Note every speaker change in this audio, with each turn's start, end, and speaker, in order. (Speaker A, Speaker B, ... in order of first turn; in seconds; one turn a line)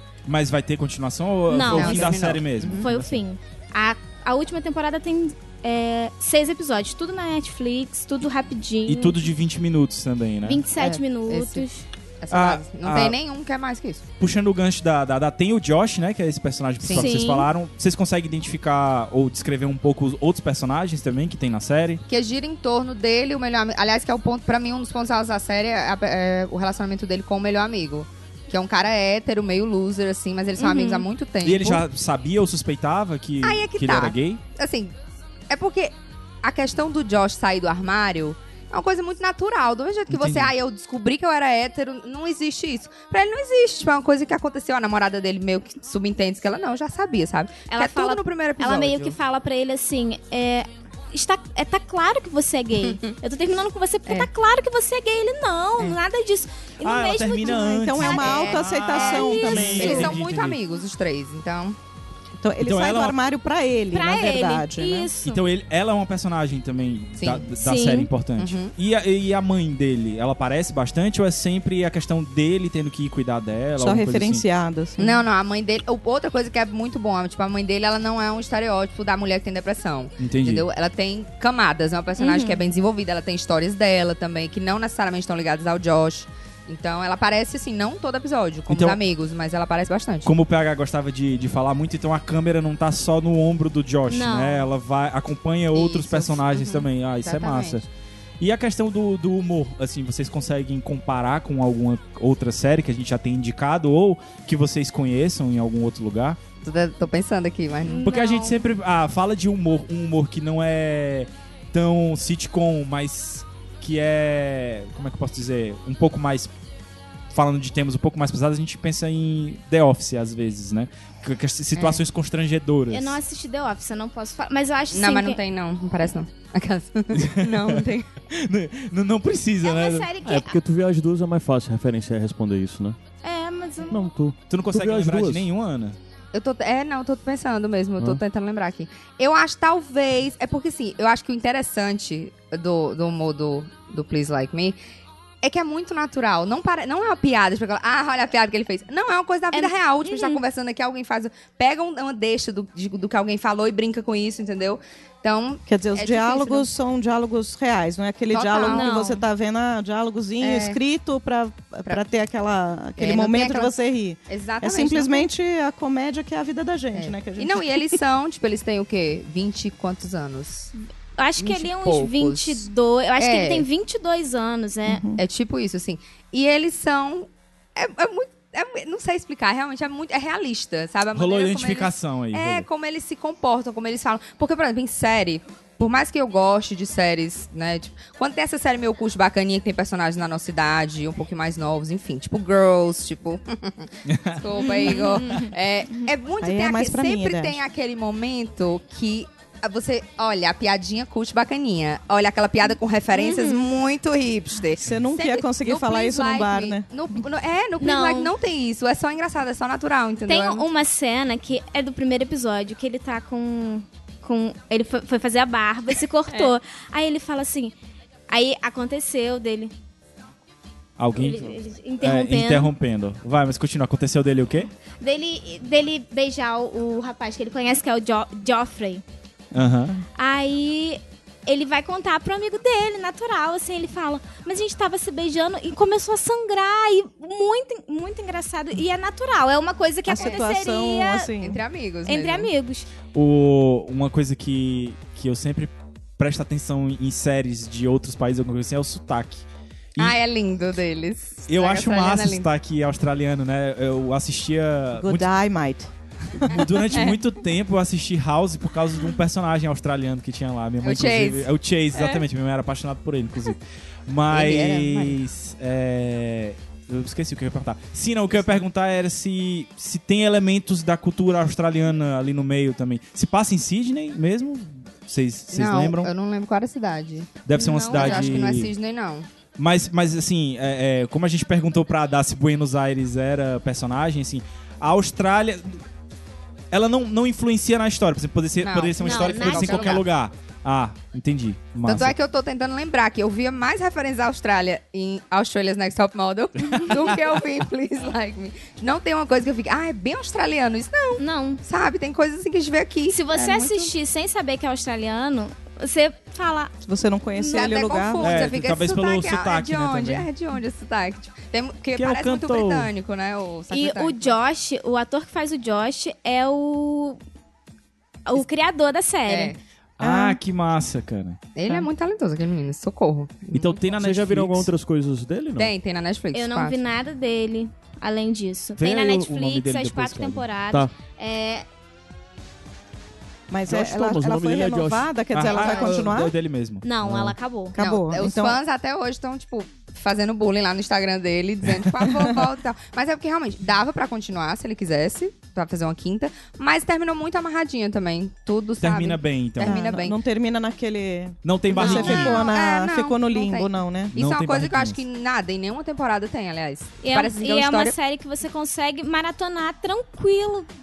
Speaker A: 0.3-3.2
Speaker B: 1.5-9.3
Speaker C: 1.7-2.9
Speaker A: 8.8-10.7
Speaker B: 10.4-11.8
Speaker C: 10.8-11.7
Speaker C: 12.2-14.1
Speaker A: 12.3-13.2
Speaker A: 14.2-22.0
Speaker C: 16.8-17.1
Speaker B: 16.9-17.5
Speaker C: 22.1-31.8
Speaker B: 30.6-31.1
Speaker A: 31.4-34.4
Speaker C: 33.4-34.9
Speaker C: 35.5-49.2
Speaker A: 40.1-40.5
Speaker B: 47.7-58.6
Speaker A: 56.8-60.6
Speaker D: 57.5-60.1
Speaker C: 58.2-61.8
Speaker B: 59.2-60.2
Speaker D: 62.4-65.1
Speaker A: 62.6-63.2
Speaker B: 63.9-65.4
Speaker A: 65.2-74.4
Speaker C: 67.2-67.5
Speaker B: 67.6-68.1
Speaker C: 68.4-68.7
Speaker D: 73.8-75.2
Speaker C: 75.0-90.3
Speaker A: 80.2-80.7
Speaker B: 82.2-82.6
Speaker A: 88.7-89.0
Speaker A: 90.2-97.9
Speaker B: 94.1-94.7
Speaker C: 95.7-97.8
Speaker A: 98.4-106.4
Speaker C: 106.6-108.0
Speaker B: 107.9-108.6
Speaker A: 108.0-116.5
Speaker A: 117.3-123.2
Speaker C: 121.8-122.0
Speaker B: 122.9-125.4
Speaker C: 124.9-128.1
Speaker A: 127.1-130.1
Speaker B: 129.6-130.6
Speaker E: 130.2-133.0
Speaker B: 133.2-134.0
Speaker E: 133.9-135.5
Speaker A: 134.5-136.0
Speaker C: 136.3-144.8
Speaker C: 145.4-156.7
Speaker B: 149.5-150.4
Speaker D: 155.7-168.0
Speaker C: 158.3-158.8
Speaker B: 158.6-159.2
Speaker C: 160.4-160.8
Speaker C: 163.0-163.7
Speaker C: 164.3-165.3
Speaker C: 166.9-170.7
Speaker B: 171.2-175.0
Speaker C: 171.4-172.6
Speaker C: 173.2-173.7
Speaker D: 174.9-175.2
Speaker C: 175.2-210.7
Speaker A: 181.1-182.7
Speaker A: 194.1-194.4
Speaker B: 194.6-195.5
Speaker D: 196.4-197.6
Speaker B: 203.1-203.7
Speaker D: 204.8-206.8
Speaker B: 207.8-208.3
Speaker B: 210.3-217.7
Speaker B: 218.3-219.7
Speaker A: 221.0-224.7
Speaker B: 221.1-222.7
Speaker B: 225.0-229.0
Speaker A: 229.5-230.0
Speaker B: 230.1-241.3
Speaker D: 240.1-241.6
Speaker C: 240.2-240.4
Speaker C: 241.4-242.5
Speaker B: 242.1-242.9
Speaker A: 243.1-249.4
Speaker C: 250.0-252.5
Speaker A: 251.5-255.3
Speaker D: 255.0-256.6
Speaker A: 256.4-276.1
Speaker C: 256.9-257.2
Speaker C: 260.8-262.1
Speaker C: 264.3-265.2
Speaker C: 275.5-277.3
Speaker A: 277.4-278.7
Speaker B: 277.5-278.4
Speaker C: 277.9-279.3
Speaker A: 279.6-285.8
Speaker A: 286.7-292.1
Speaker C: 288.6-290.0
Speaker B: 289.0-290.0
Speaker C: 291.9-303.9
Speaker A: 296.7-297.1
Speaker B: 301.2-301.6
Speaker B: 303.1-306.7
Speaker D: 306.8-308.3
Speaker B: 307.3-307.8
Speaker C: 307.5-314.4
Speaker A: 308.2-310.3
Speaker A: 311.9-312.9
Speaker B: 313.7-317.2
Speaker B: 318.2-319.6
Speaker C: 319.3-319.6
Speaker A: 320.0-321.4
Speaker C: 321.6-323.8
Speaker A: 323.5-324.7
Speaker E: 323.9-325.7
Speaker C: 325.6-326.8
Speaker B: 326.3-331.6
Speaker A: 328.8-330.4
Speaker D: 333.5-336.3
Speaker E: 333.7-335.1
Speaker A: 335.3-336.8
Speaker B: 335.5-336.0
Speaker B: 336.8-337.8
Speaker E: 337.0-337.3
Speaker D: 337.7-338.6
Speaker C: 337.8-350.1
Speaker A: 348.8-349.9
Speaker D: 349.6-354.1
Speaker A: 351.4-352.4
Speaker C: 351.7-357.9
Speaker A: 354.1-355.0
Speaker B: 357.0-360.7